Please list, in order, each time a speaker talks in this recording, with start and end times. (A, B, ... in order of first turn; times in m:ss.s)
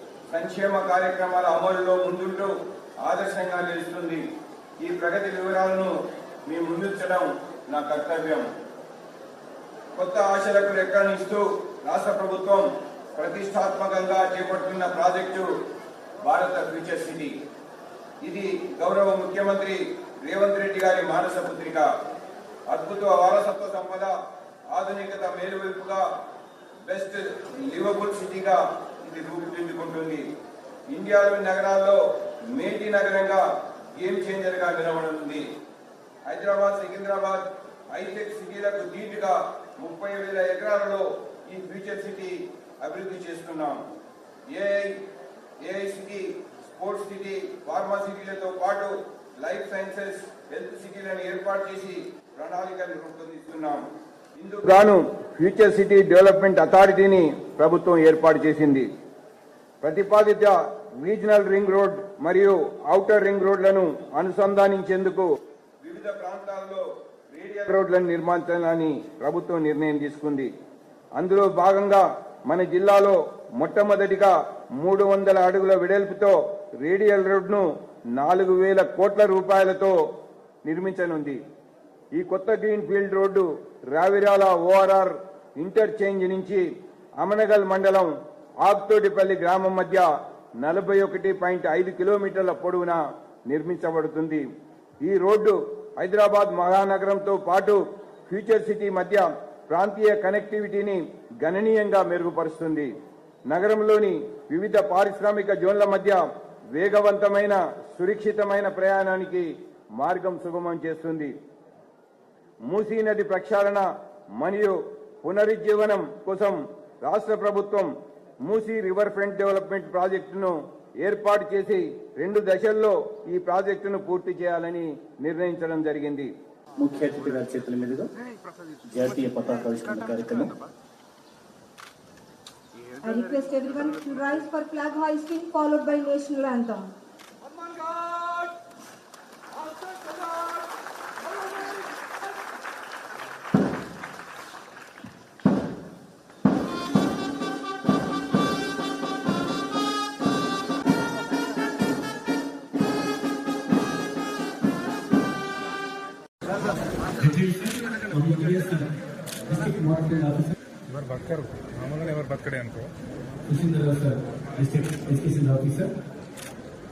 0:00.3-0:02.5 A
0:03.0-0:04.2 A
0:04.8-0:05.9 A
0:06.5-0:08.5 A
0:10.0-0:15.5 A
0:16.2-0:17.3 A
0:18.2-0:21.9 A
0:22.7-0:24.1 A
0:24.7-0:26.0 A
0:26.9-0:30.2 A
0:30.9-0:32.0 A
0:32.5-0:33.4 A
0:34.0-0:35.4 A
0:36.3-0:43.8 A
0:44.5-0:45.0 A
0:45.6-0:53.8 A
0:54.4-0:58.9 A
0:59.8-1:05.3 A
1:05.8-1:10.5 A
1:11.2-1:20.0 A
1:20.6-1:21.4 A
1:22.2-1:26.6 A
1:27.2-1:28.1 A
1:28.6-1:30.1 A
1:30.6-1:34.4 A
1:35.0-1:42.9 A
1:43.5-1:46.2 A
1:46.7-1:49.5 A
1:50.0-1:51.3 A
1:52.7-1:53.8 A
1:54.4-1:57.9 A
1:58.5-2:06.3 A
2:06.8-2:08.1 B
2:08.8-2:10.6 B
2:12.9-2:16.9 C
2:17.9-2:18.3 A
2:37.1-2:38.9 B
2:39.4-2:40.5 B
2:40.9-2:42.9 D
2:43.5-2:46.0 B